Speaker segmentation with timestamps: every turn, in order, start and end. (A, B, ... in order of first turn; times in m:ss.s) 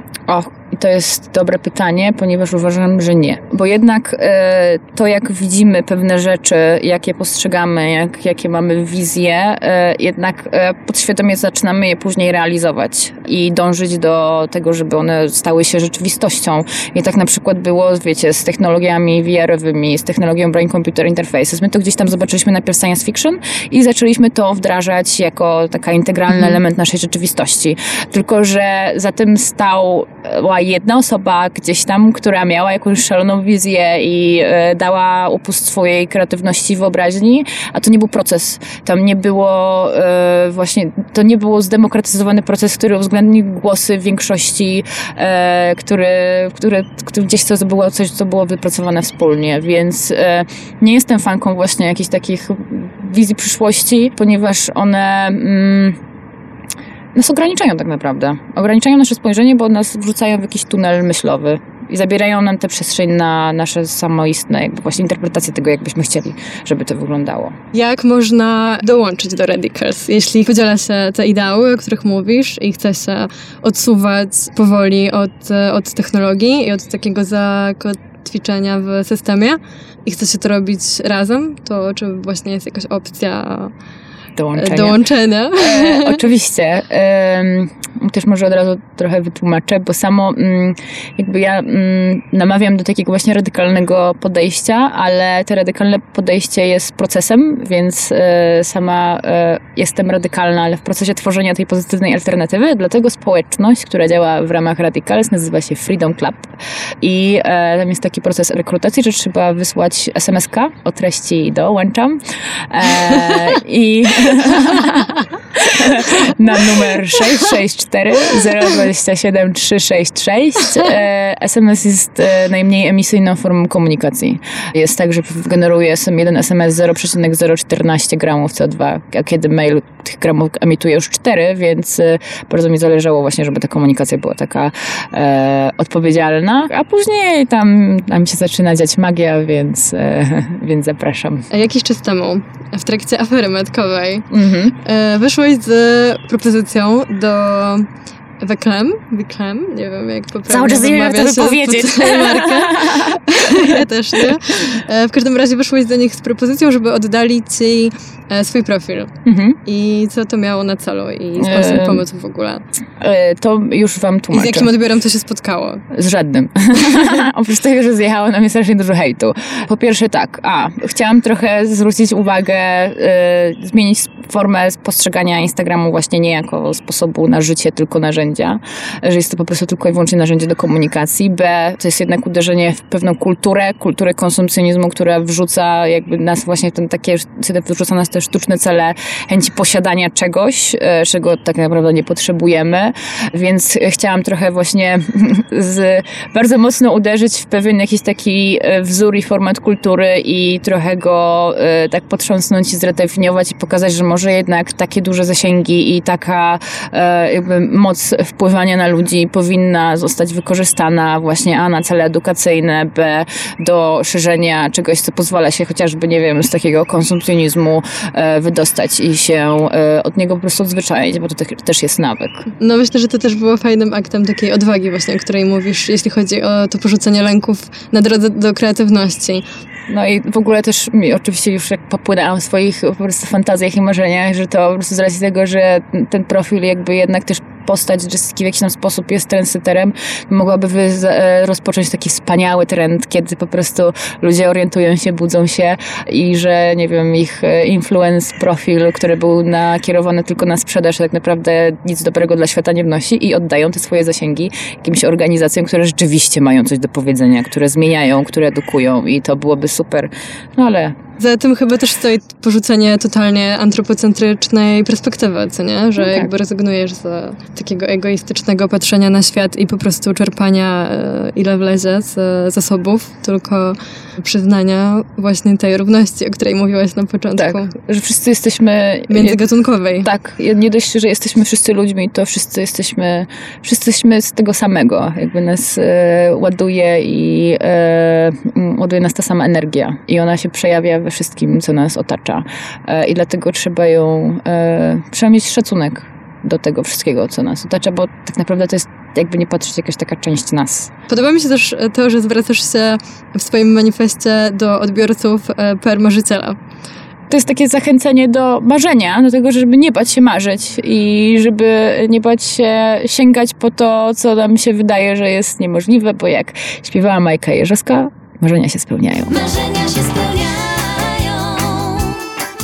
0:00.3-0:56.0 A
0:57.1-1:07.6 A
1:07.7-1:23.7 B
1:24.4-1:25.0 A
1:24.6-1:26.2 B
1:25.6-2:21.5 A
2:21.5-2:24.3 B
2:24.3-2:24.8 A
2:24.8-2:27.9 B
2:28.4-2:39.1 B
2:30.5-2:33.8 A
2:39.2-2:39.6 A
2:39.6-2:42.6 B
2:41.4-2:42.0 A
2:43.0-2:44.7 A
2:44.3-2:45.8 B
2:45.9-3:42.5 A
3:42.6-3:49.4 B
3:49.9-4:21.0 A
4:21.2-4:37.7 B
4:26.0-4:26.3 A
4:37.4-4:39.4 A
4:39.1-4:40.1 B
4:40.0-5:00.9 A
5:01.1-5:06.6 B
5:07.3-5:19.3 A
5:19.3-5:22.4 C